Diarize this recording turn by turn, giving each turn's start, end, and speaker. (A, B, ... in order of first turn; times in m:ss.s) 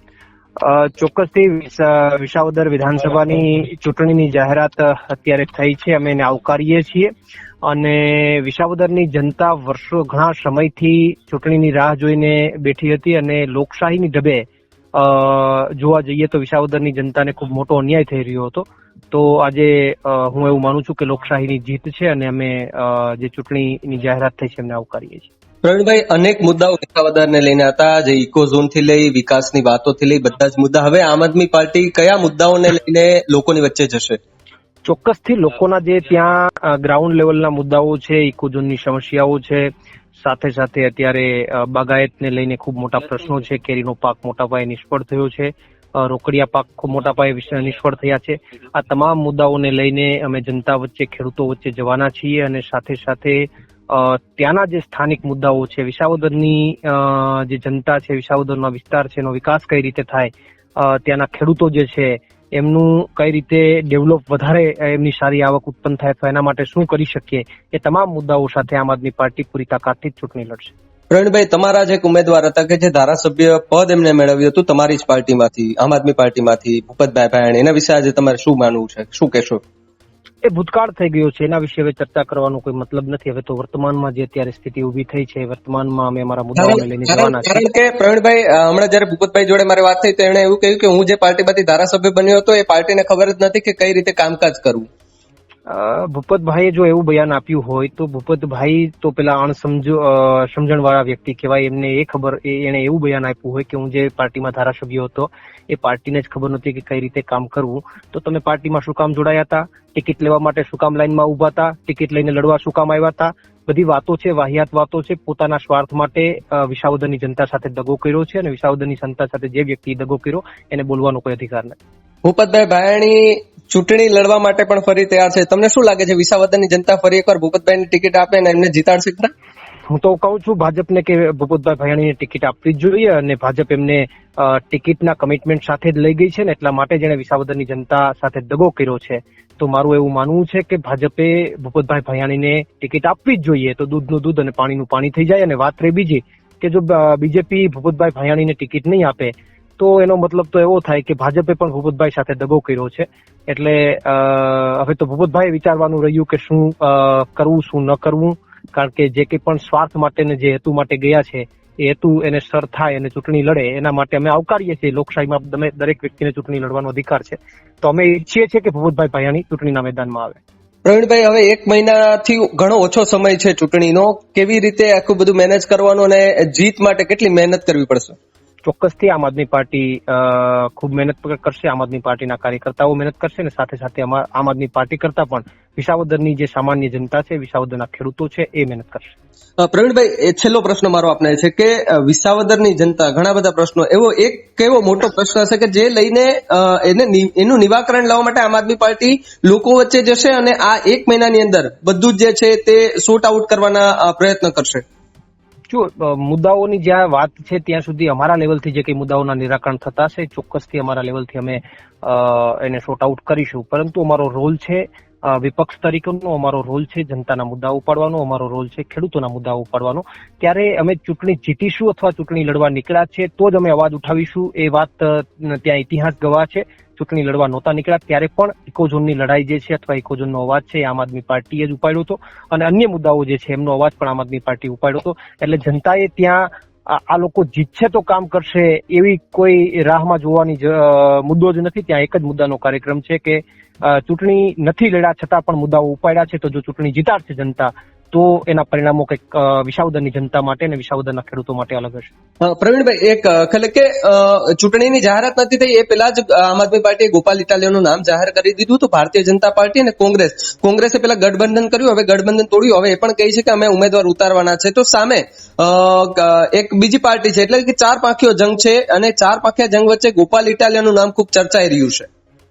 0:00.6-0:07.1 A
0:07.6-0:25.3 A
0:25.6-0:34.2 B
0:34.8-0:39.7 A
0:40.2-1:10.7 A
1:11.1-1:19.6 B
1:20.4-1:27.6 A
1:26.6-1:34.9 B
1:35.7-2:01.8 A
2:02.2-2:09.3 B
2:09.9-2:50.4 A
2:50.8-2:58.2 B
2:58.6-3:09.1 A
3:09.6-3:24.8 B
3:25.7-4:12.1 A
4:12.4-4:32.1 B